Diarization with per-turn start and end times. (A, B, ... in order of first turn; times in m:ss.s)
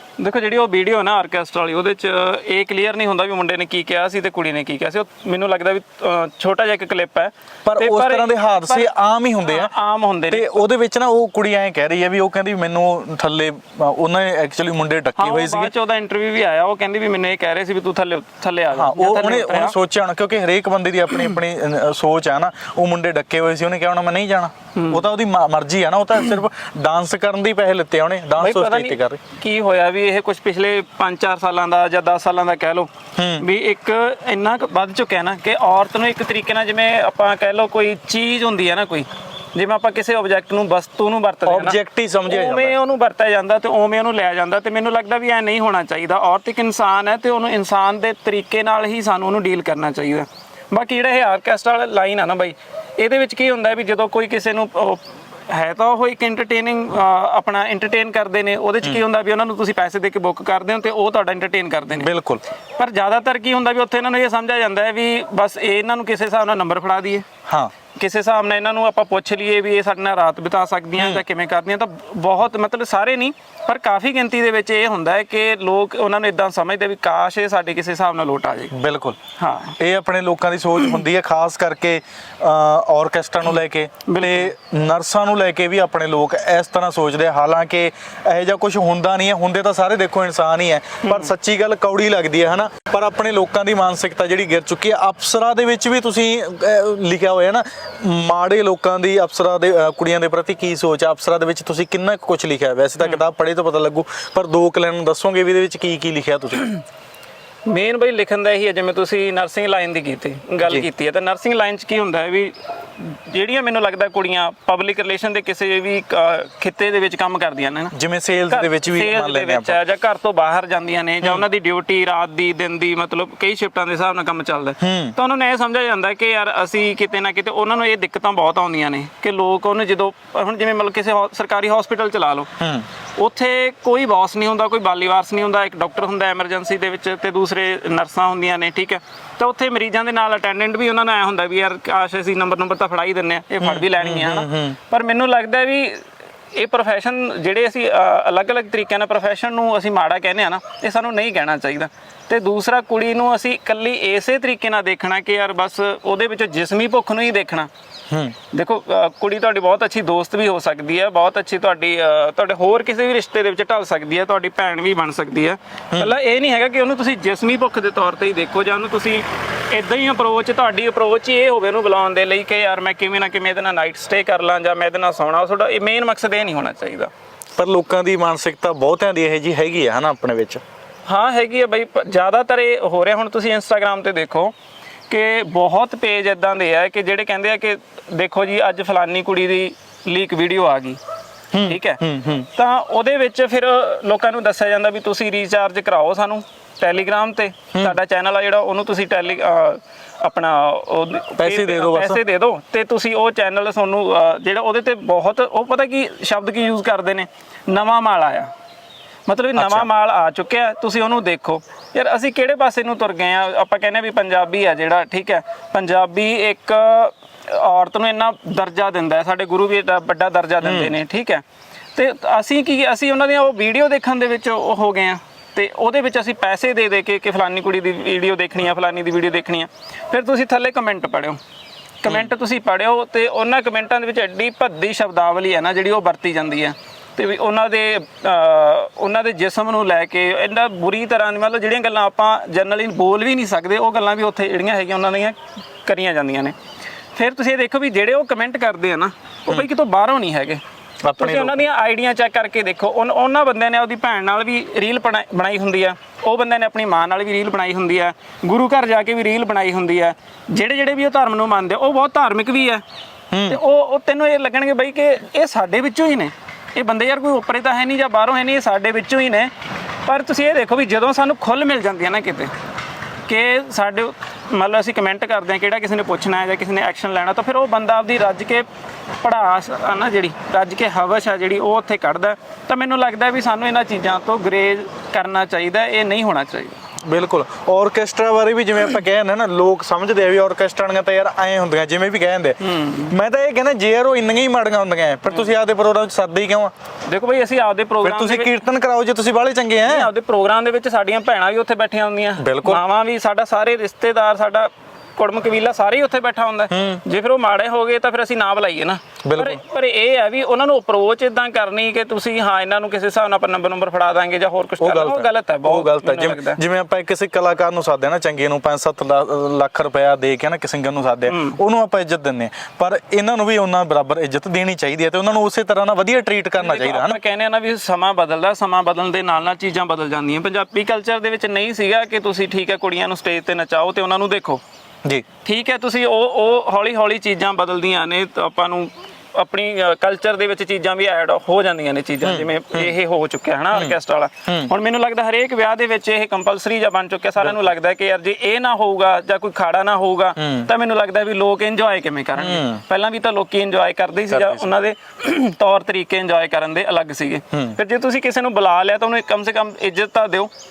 0:00.2-0:08.9 A
0:07.7-0:09.7 B
0:09.4-0:10.5 A
0:10.3-0:15.7 B
0:15.2-0:19.8 A
0:18.7-0:29.2 B
0:24.8-0:25.0 A
0:28.4-1:02.1 A
0:33.2-0:33.5 B
0:41.4-0:42.7 B
1:01.9-1:02.4 B
1:02.8-1:07.2 A
1:07.5-1:07.7 B
1:08.0-1:18.7 A
1:18.7-1:19.2 B
1:19.4-1:19.8 A
1:19.8-1:46.8 B
1:24.1-1:24.5 A
1:31.0-1:31.3 A
1:47.7-1:58.0 A
1:57.9-1:59.8 B
1:58.5-2:12.5 A
2:04.8-2:05.2 B
2:12.6-2:12.9 B
2:13.2-2:37.7 A
2:23.6-2:24.8 B
2:38.1-2:38.4 B
2:38.5-2:57.1 A
2:57.6-3:00.6 B
3:01.1-3:04.5 A
3:05.1-3:11.0 A
3:11.5-3:12.5 B
3:11.6-3:12.0 A
3:12.5-3:28.5 A
3:21.4-3:22.2 B
3:29.3-3:41.4 A
3:29.6-3:29.9 B
3:40.6-3:41.0 B
3:42.0-3:51.4 A
3:52.0-4:06.6 A
4:07.2-4:10.6 A
4:11.0-4:11.6 B
4:11.2-4:22.8 A
4:23.3-4:23.6 B
4:23.5-4:29.5 A
4:30.1-4:32.5 A
4:33.3-4:38.7 A
4:39.2-4:46.8 A
4:47.0-4:56.7 B
4:52.6-4:53.1 A
4:55.3-4:55.5 A
4:57.1-4:58.5 A
4:58.0-5:00.1 B
4:59.8-5:16.6 A
5:02.4-5:02.8 B
5:06.7-5:07.0 B
5:09.2-5:09.6 B
5:14.8-5:27.2 B
5:21.3-5:21.6 A
5:26.6-5:34.6 A
5:35.4-6:00.5 A
5:42.2-5:42.9 B
5:43.7-5:44.7 B
5:50.4-5:50.7 B
5:52.4-5:52.8 B
5:54.3-5:54.7 B
5:57.5-5:57.8 B